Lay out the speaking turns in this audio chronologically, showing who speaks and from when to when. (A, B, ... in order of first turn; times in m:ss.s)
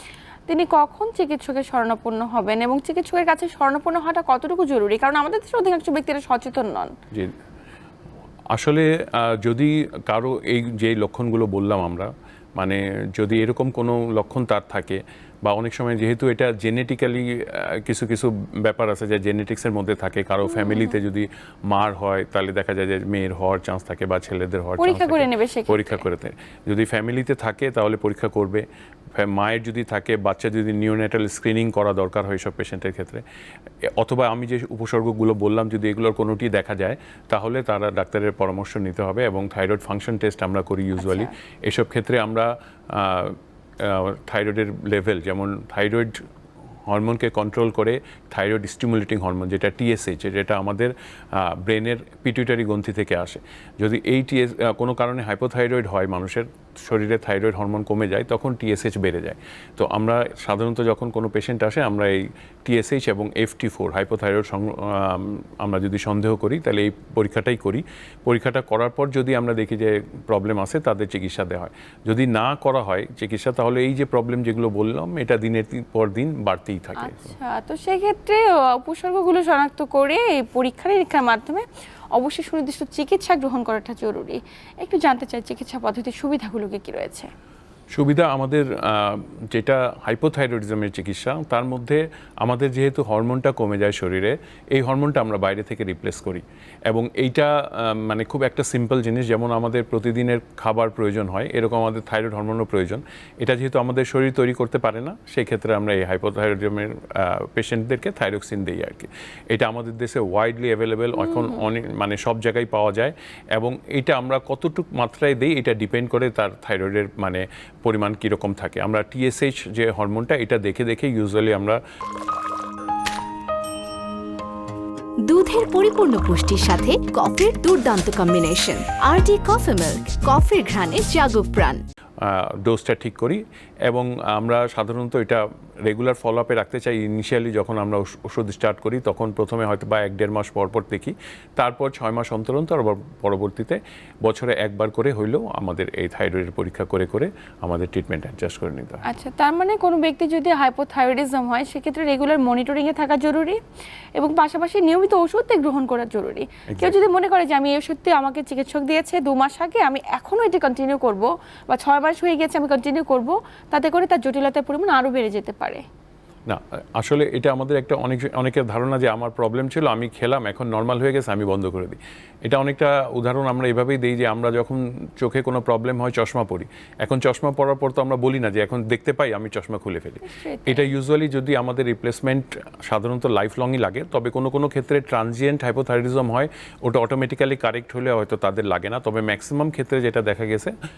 0:00.5-0:06.9 A
0:08.5-0:28.6 B
0:20.4-0:21.0 A
0:24.8-0:26.0 A
0:29.2-0:33.2 B
0:34.0-0:46.2 B
0:41.0-0:41.3 A
0:46.9-1:17.3 B
1:17.0-1:27.3 A
1:27.9-2:01.8 B
1:51.1-1:51.6 A
2:05.3-2:11.8 C
2:12.2-2:29.0 B
2:29.0-2:33.6 A
2:34.2-2:45.8 A
2:36.7-2:37.0 B
2:46.5-3:10.7 B
3:00.2-3:00.9 A